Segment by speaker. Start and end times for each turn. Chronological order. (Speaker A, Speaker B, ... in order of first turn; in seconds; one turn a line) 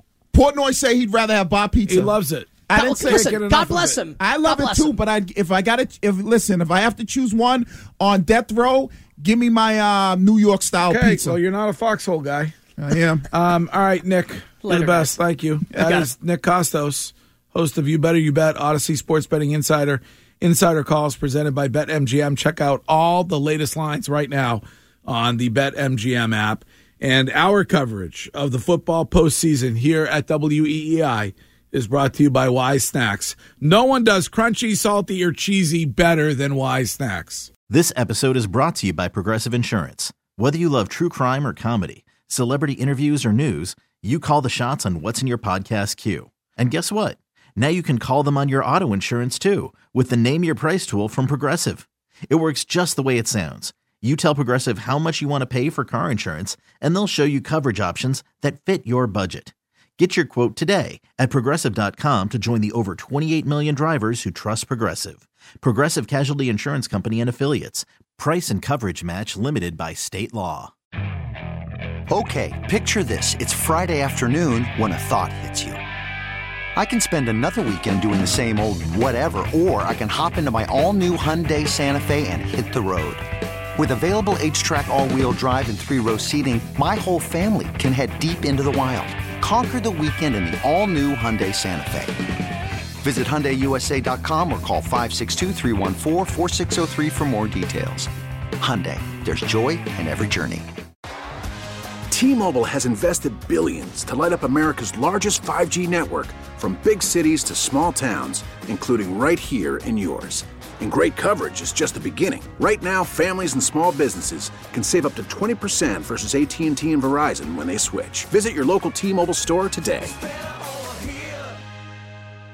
Speaker A: 0.3-2.2
Speaker B: 1.9-4.0
Speaker A: 2.7-3.4
Speaker C: 2.7-5.0
Speaker A: 4.2-11.4
Speaker B: 10.9-12.6
Speaker A: 12.8-13.3
Speaker B: 13.3-37.5
Speaker C: 14.6-15.2
Speaker C: 15.7-16.1
Speaker D: 37.7-70.7
Speaker E: 72.1-75.8
Speaker E: 76.8-83.2
Speaker E: 83.8-92.3
Speaker E: 93.0-100.7
Speaker F: 102.1-120.2